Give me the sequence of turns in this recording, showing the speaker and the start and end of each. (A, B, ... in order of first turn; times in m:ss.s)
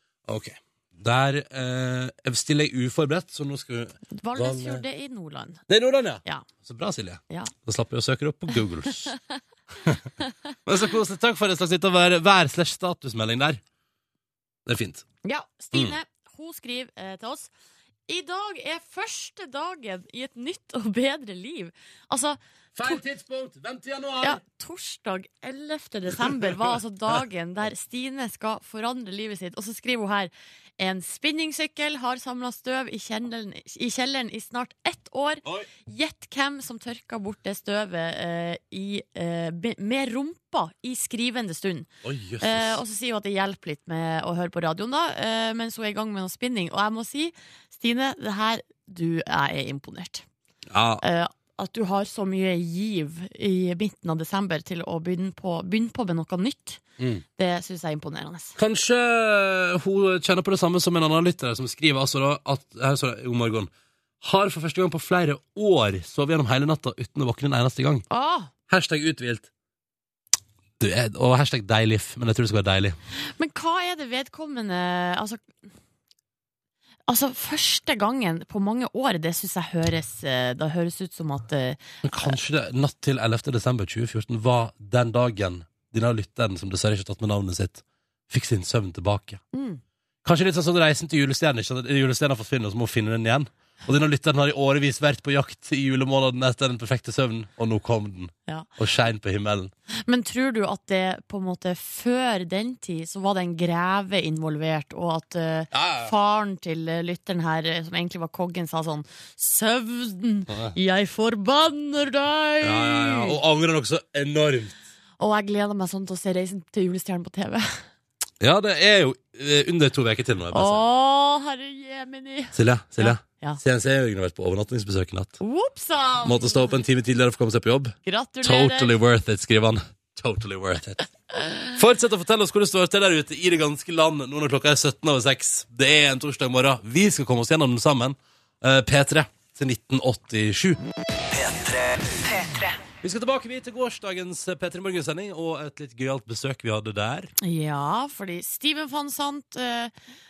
0:00.3-0:04.8 A
0:04.1-0:05.6 B
0:05.7-0:09.1 A
0:10.6-0:13.6 A
0:14.6-0:15.0 A
0:15.2-0:17.5 B
0:18.1-0:23.0 B
0:22.7-0:24.4 A
0:24.2-0:50.2 B
0:42.0-0:42.8 A
0:50.7-0:51.0 A
0:51.0-0:56.8 B
0:57.0-0:57.2 A
0:57.4-0:58.6 B
0:58.6-1:03.7 A
1:04.2-1:08.0 A
1:08.1-1:08.5 B
1:08.7-1:09.5 A
1:10.8-1:13.0 A
1:13.4-1:15.6 B
1:17.1-1:22.4 B
1:22.0-1:29.4 A
1:29.5-1:29.8 B
1:30.2-1:39.7 A
1:40.0-1:53.4 B
1:45.7-1:46.1 A
1:52.6-1:54.8 A
1:55.2-1:57.8 B
1:58.4-2:00.8 A
2:00.5-2:03.6 B
2:02.5-2:05.4 A
2:05.4-2:06.8 B
2:06.2-2:11.1 A
2:08.0-2:09.0 B
2:11.7-2:20.8 A
2:23.0-2:27.3 A
2:27.4-2:29.9 B